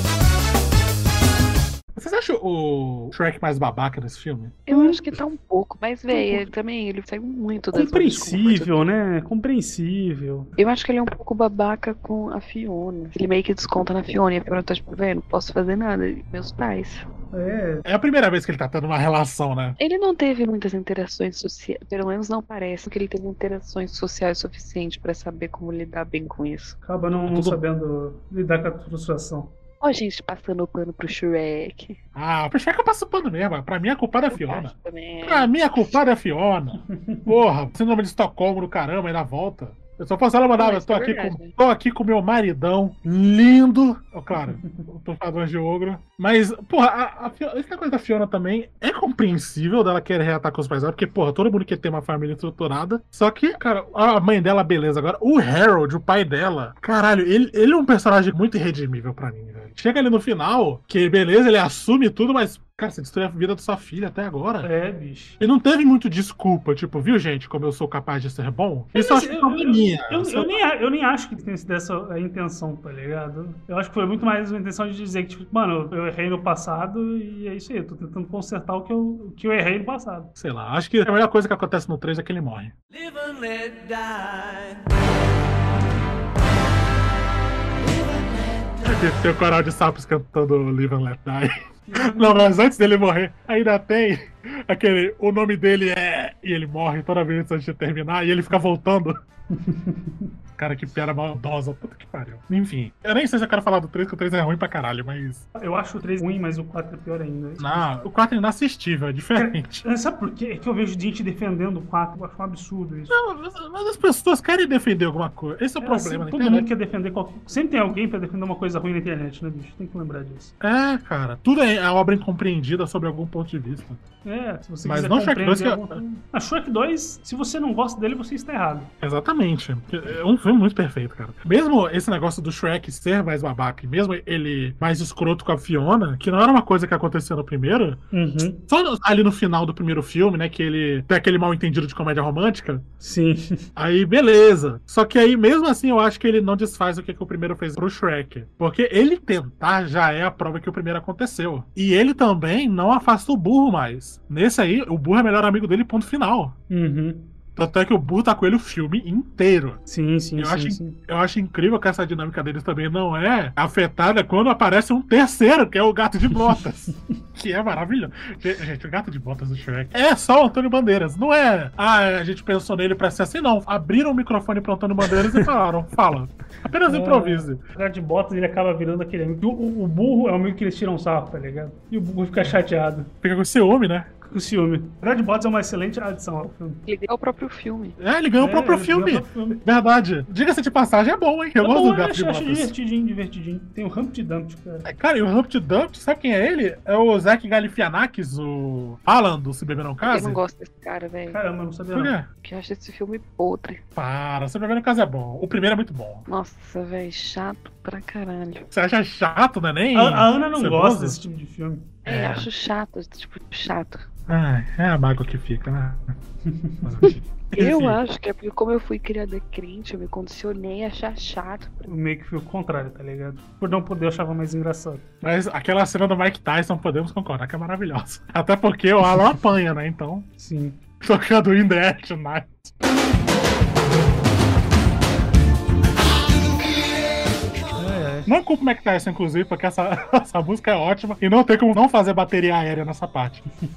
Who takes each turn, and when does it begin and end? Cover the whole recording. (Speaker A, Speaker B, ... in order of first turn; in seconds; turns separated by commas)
Speaker A: 1.9-4.6, Speaker B: 4.7-8.8, Speaker C: 4.7-5.0, Speaker C: 6.1-6.5, Speaker C: 7.7-10.5, Speaker B: 10.6-17.1, Speaker C: 17.3-17.8, Speaker A: 17.8-19.8, Speaker B: 19.8-26.8, Speaker C: 26.8-29.5, Speaker A: 27.2-27.6, Speaker B: 29.8-32.0, Speaker A: 32.1-64.7, Speaker B: 34.3-35.5, Speaker B: 40.6-41.5, Speaker C: 44.3-44.8, Speaker C: 64.6-65.4, Speaker A: 65.4-70.5, Speaker C: 68.9-80.3, Speaker A: 80.4-82.7, Speaker A: 88.8-99.2, Speaker C: 91.9-92.5, Speaker C: 99.5-100.0, Speaker A: 100.6-105.4, Speaker C: 105.5-107.9, Speaker A: 107.6-109.8, Speaker C: 109.4-113.2, Speaker A: 113.1-116.7, Speaker C: 115.8-120.5, Speaker A: 120.6-124.0, Speaker C: 124.2-128.9, Speaker A: 124.8-126.0, Speaker A: 129.0-138.0, Speaker C: 138.1-138.6, Speaker A: 138.7-142.8, Speaker C: 143.0-143.6, Speaker A: 143.8-156.5, Speaker C: 156.7-157.3, Speaker A: 157.6-159.8, Speaker C: 159.9-160.9, Speaker A: 160.4-177.6, Speaker C: 176.8-183.1, Speaker A: 183.2-184.1, Speaker C: 184.2-186.8, Speaker B: 186.8-187.9, Speaker A: 188.0-192.7, Speaker C: 188.4-189.6, Speaker C: 191.6-194.9, Speaker A: 194.8-200.4, Speaker B: 200.0-201.4, Speaker C: 201.3-202.2, Speaker A: 201.9-202.3, Speaker B: 202.4-203.8, Speaker A: 203.9-206.2, Speaker B: 206.3-208.7, Speaker A: 208.7-211.2, Speaker C: 209.9-211.9, Speaker B: 212.0-214.1, Speaker A: 212.1-212.5, Speaker A: 214.3-216.1, Speaker C: 216.5-216.9, Speaker A: 216.8-218.0, Speaker B: 217.5-221.9, Speaker C: 221.8-225.0, Speaker A: 225.2-230.3, Speaker C: 230.4-230.8, Speaker A: 231.0-232.7, Speaker C: 237.7-238.3, Speaker A: 238.2-243.4